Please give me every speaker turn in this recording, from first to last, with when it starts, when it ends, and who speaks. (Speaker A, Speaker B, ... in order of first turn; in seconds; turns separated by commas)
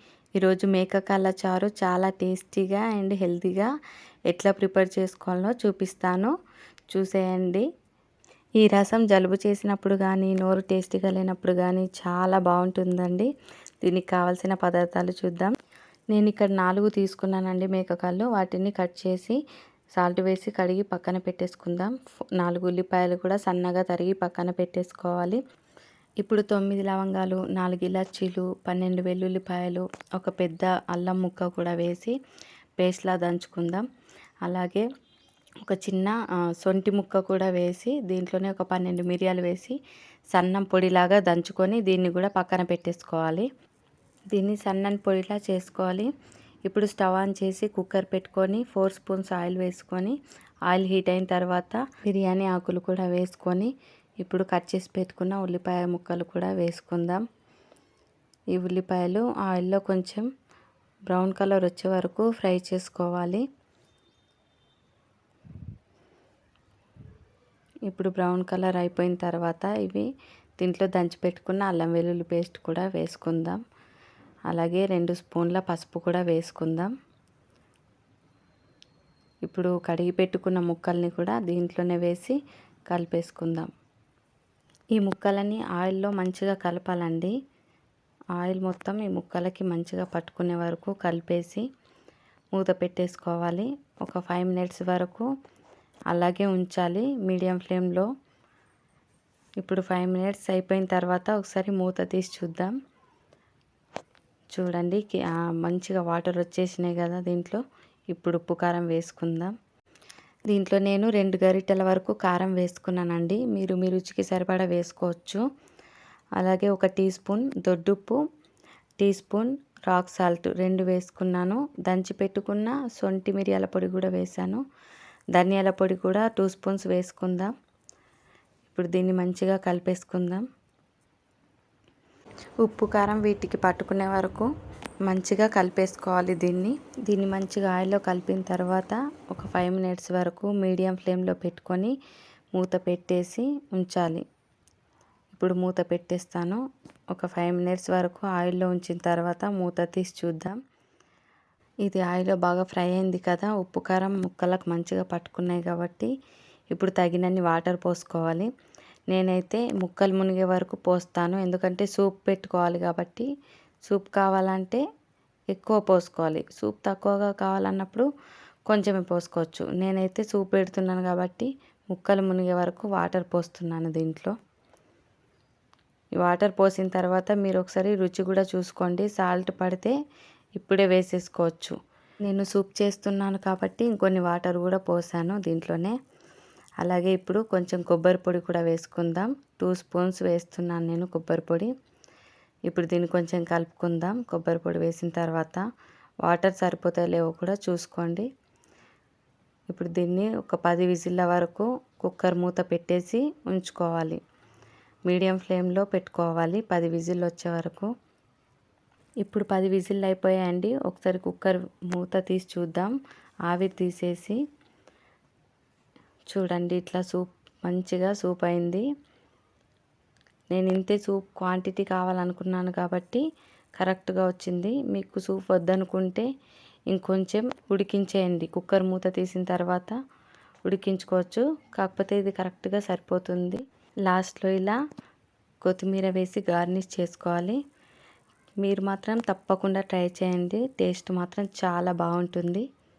Speaker A: 0.4-3.7, Speaker A: 4.3-6.3, Speaker A: 6.9-7.7, Speaker A: 8.6-13.3, Speaker A: 13.8-15.5, Speaker A: 16.1-19.4, Speaker A: 20.0-25.4, Speaker A: 26.2-32.1, Speaker A: 32.8-33.9, Speaker A: 34.5-34.9, Speaker A: 35.6-39.8, Speaker A: 40.3-43.5, Speaker A: 44.3-46.1, Speaker A: 46.7-50.2, Speaker A: 50.7-57.2, Speaker A: 58.5-60.3, Speaker A: 61.1-63.4, Speaker A: 67.9-70.0, Speaker A: 70.6-73.6, Speaker A: 74.5-76.9, Speaker A: 79.5-82.3, Speaker A: 82.9-83.7, Speaker A: 85.0-87.3, Speaker A: 88.4-91.6, Speaker A: 92.5-95.3, Speaker A: 96.1-98.1, Speaker A: 99.6-102.7, Speaker A: 104.5-109.5, Speaker A: 110.5-115.4, Speaker A: 116.4-118.2, Speaker A: 119.0-124.6, Speaker A: 125.3-127.5, Speaker A: 128.7-130.4, Speaker A: 132.6-134.5, Speaker A: 135.1-141.9, Speaker A: 142.6-144.2, Speaker A: 145.3-146.6, Speaker A: 147.1-150.6, Speaker A: 151.8-156.1, Speaker A: 156.7-158.5, Speaker A: 159.1-163.3, Speaker A: 163.9-164.8, Speaker A: 165.5-168.1, Speaker A: 168.7-174.3, Speaker A: 176.2-179.9, Speaker A: 180.6-185.9, Speaker A: 186.8-191.7, Speaker A: 192.7-195.6, Speaker A: 196.2-198.3, Speaker A: 199.7-204.2, Speaker A: 205.1-207.9, Speaker A: 209.2-212.9, Speaker A: 213.5-214.4, Speaker A: 216.3-218.8, Speaker A: 220.5-223.2, Speaker A: 223.8-226.3, Speaker A: 226.9-230.0, Speaker A: 230.7-234.8, Speaker A: 235.6-237.6, Speaker A: 238.6-242.7